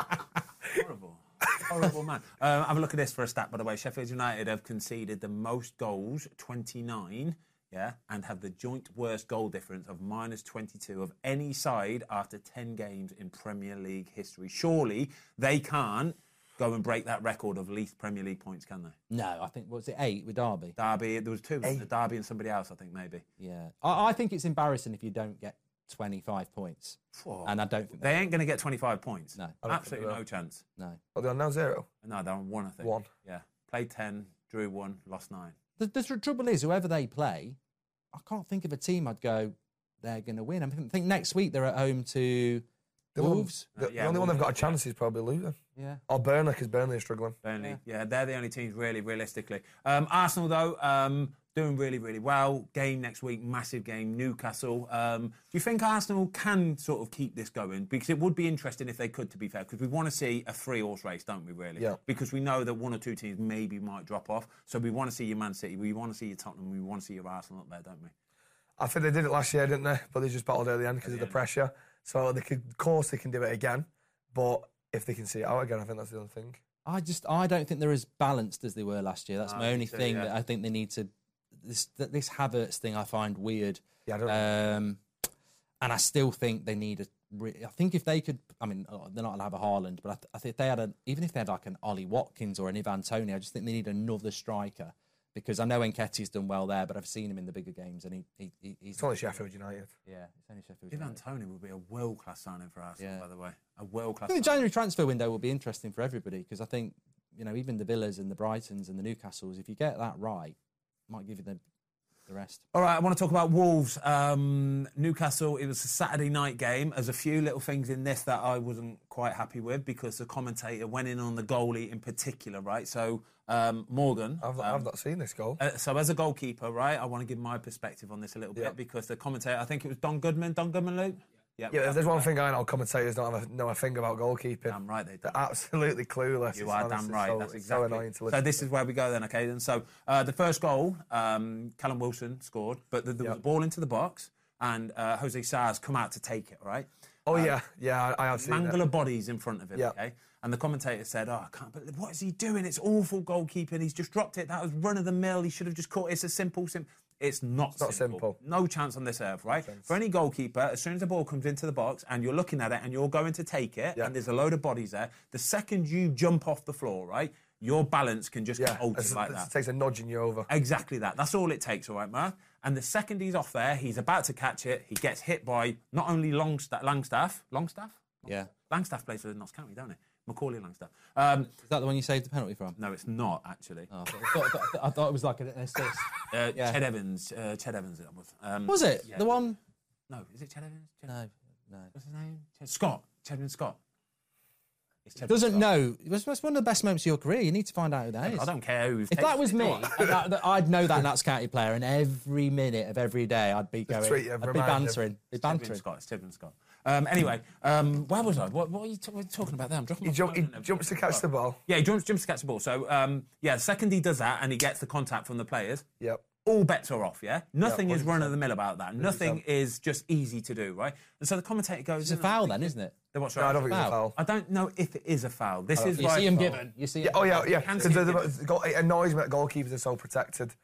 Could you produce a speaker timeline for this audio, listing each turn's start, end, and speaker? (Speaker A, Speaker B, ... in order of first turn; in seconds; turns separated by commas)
Speaker A: 0.7-18.9, Speaker B: 19.1-20.8, Speaker A: 20.8-23.2, Speaker B: 23.4-28.2, Speaker A: 27.1-30.6, Speaker C: 29.6-30.2, Speaker C: 31.1-31.9, Speaker A: 32.0-35.5, Speaker C: 32.8-33.1, Speaker B: 35.8-37.6, Speaker B: 38.1-42.6, Speaker C: 43.1-47.4, Speaker B: 43.2-43.7, Speaker A: 43.8-44.8, Speaker B: 45.8-46.0, Speaker A: 47.4-68.1, Speaker C: 68.8-76.6, Speaker A: 71.0-71.4, Speaker B: 76.8-81.1, Speaker A: 79.4-80.3, Speaker B: 81.6-85.0, Speaker C: 84.0-84.7, Speaker B: 85.8-99.2, Speaker C: 99.0-99.9, Speaker B: 100.0-101.2, Speaker A: 100.9-104.6, Speaker B: 103.0-103.2, Speaker B: 104.3-110.5, Speaker B: 111.1-111.6, Speaker B: 112.3-112.6, Speaker A: 112.7-124.9, Speaker C: 124.4-125.6, Speaker A: 125.6-132.3, Speaker C: 131.7-138.6, Speaker A: 134.7-135.4, Speaker A: 136.5-147.6, Speaker C: 147.3-148.8, Speaker A: 148.3-169.5, Speaker C: 157.8-158.4, Speaker C: 168.6-170.5, Speaker A: 170.5-181.5, Speaker B: 178.2-178.5, Speaker B: 181.6-182.8, Speaker A: 182.8-183.9, Speaker B: 183.9-186.8, Speaker A: 186.3-189.4, Speaker B: 188.7-189.6, Speaker A: 190.1-191.1, Speaker B: 191.1-191.9, Speaker A: 191.9-193.8, Speaker A: 195.0-195.6, Speaker B: 195.3-198.5, Speaker A: 198.2-200.1, Speaker B: 199.1-205.8, Speaker C: 203.9-205.0, Speaker A: 205.4-215.8, Speaker C: 210.0-211.6, Speaker C: 216.0-216.2, Speaker A: 216.4-226.5, Speaker C: 217.6-218.3, Speaker C: 219.0-219.4, Speaker B: 222.0-222.9, Speaker C: 223.3-224.2, Speaker B: 223.7-224.0, Speaker C: 225.8-230.5, Speaker B: 225.9-227.8, Speaker A: 227.3-228.4